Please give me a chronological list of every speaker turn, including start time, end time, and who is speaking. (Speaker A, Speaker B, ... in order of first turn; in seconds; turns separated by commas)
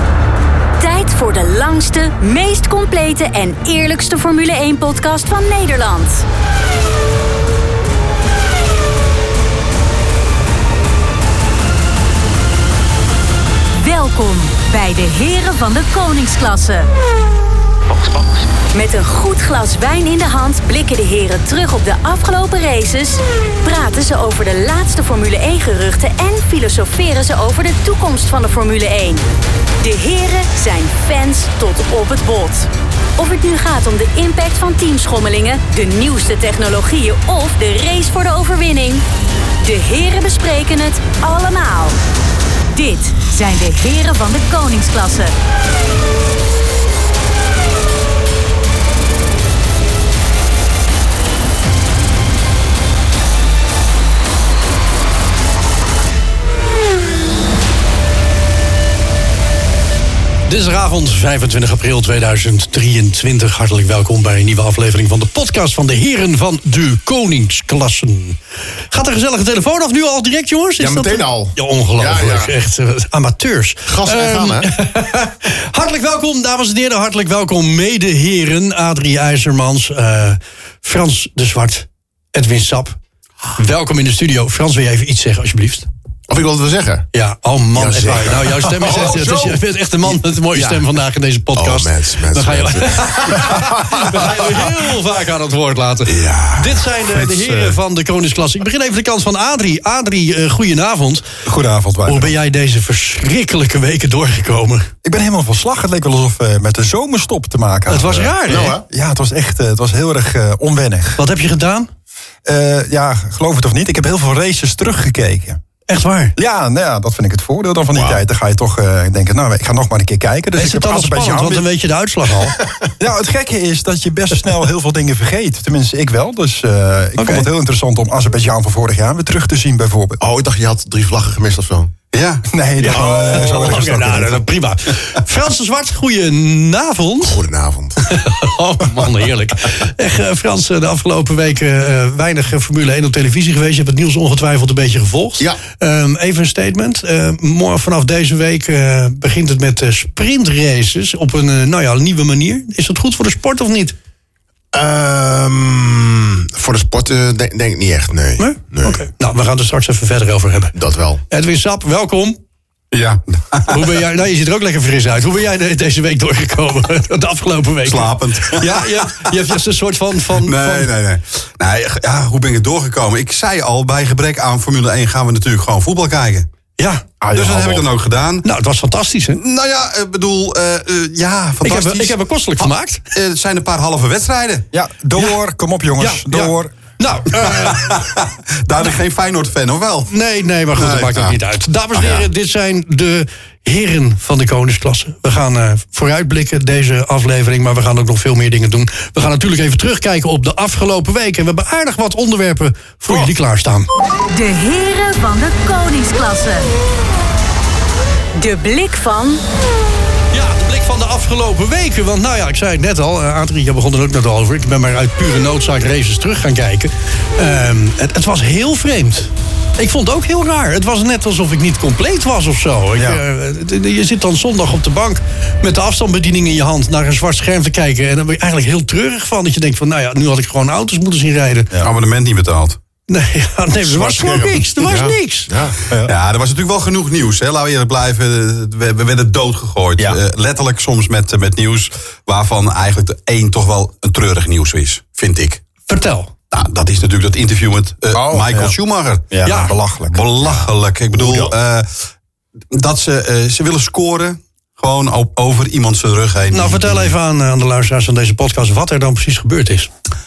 Speaker A: 0.8-6.3, Speaker A: 13.8-16.9, Speaker A: 17.9-29.2, Speaker A: 29.8-39.0, Speaker A: 39.6-42.0, Speaker A: 42.7-45.3, Speaker B: 60.5-68.4, Speaker B: 68.9-83.0, Speaker C: 70.8-72.5, Speaker C: 73.8-74.7, Speaker B: 83.6-85.9, Speaker C: 86.3-87.1, Speaker B: 87.1-101.2, Speaker C: 87.8-89.6, Speaker C: 90.5-90.8, Speaker C: 91.5-94.7, Speaker C: 96.1-96.8, Speaker D: 97.1-97.8, Speaker E: 101.4-102.3, Speaker B: 102.1-104.9, Speaker E: 105.0-111.2, Speaker B: 107.9-108.8, Speaker C: 108.4-108.8, Speaker B: 111.2-111.9, Speaker E: 112.4-115.6, Speaker B: 115.9-116.3, Speaker E: 116.3-121.6, Speaker C: 117.9-118.2, Speaker B: 120.6-122.6, Speaker E: 123.0-130.2, Speaker B: 127.2-127.5, Speaker C: 130.2-131.9, Speaker D: 132.1-132.4, Speaker E: 132.5-134.4, Speaker B: 132.8-137.4, Speaker C: 137.2-138.0, Speaker B: 138.0-153.9, Speaker C: 154.7-159.0, Speaker B: 158.4-160.7, Speaker C: 160.8-161.2, Speaker B: 161.3-162.4, Speaker D: 162.9-164.0, Speaker B: 163.7-170.9, Speaker D: 167.8-169.3, Speaker D: 170.4-176.5, Speaker B: 176.8-177.0, Speaker E: 177.2-177.9, Speaker D: 177.3-178.4, Speaker B: 178.4-179.4, Speaker D: 179.4-184.7, Speaker B: 181.6-183.0, Speaker E: 184.7-186.8, Speaker B: 186.0-188.0, Speaker D: 187.3-190.1, Speaker B: 190.1-203.9, Speaker D: 190.8-191.4, Speaker D: 191.9-192.3, Speaker A: 204.3-206.7, Speaker A: 208.3-209.4, Speaker B: 210.3-231.7, Speaker E: 222.9-223.2, Speaker D: 231.8-232.8, Speaker B: 233.1-235.5, Speaker C: 233.8-235.8, Speaker E: 235.9-236.1, Speaker D: 236.0-245.6, Speaker B: 245.9-246.3, Speaker D: 246.5-249.3, Speaker E: 248.1-248.8, Speaker E: 249.3-251.5, Speaker B: 249.4-249.7, Speaker D: 250.1-252.0, Speaker D: 252.7-257.1, Speaker B: 256.5-259.9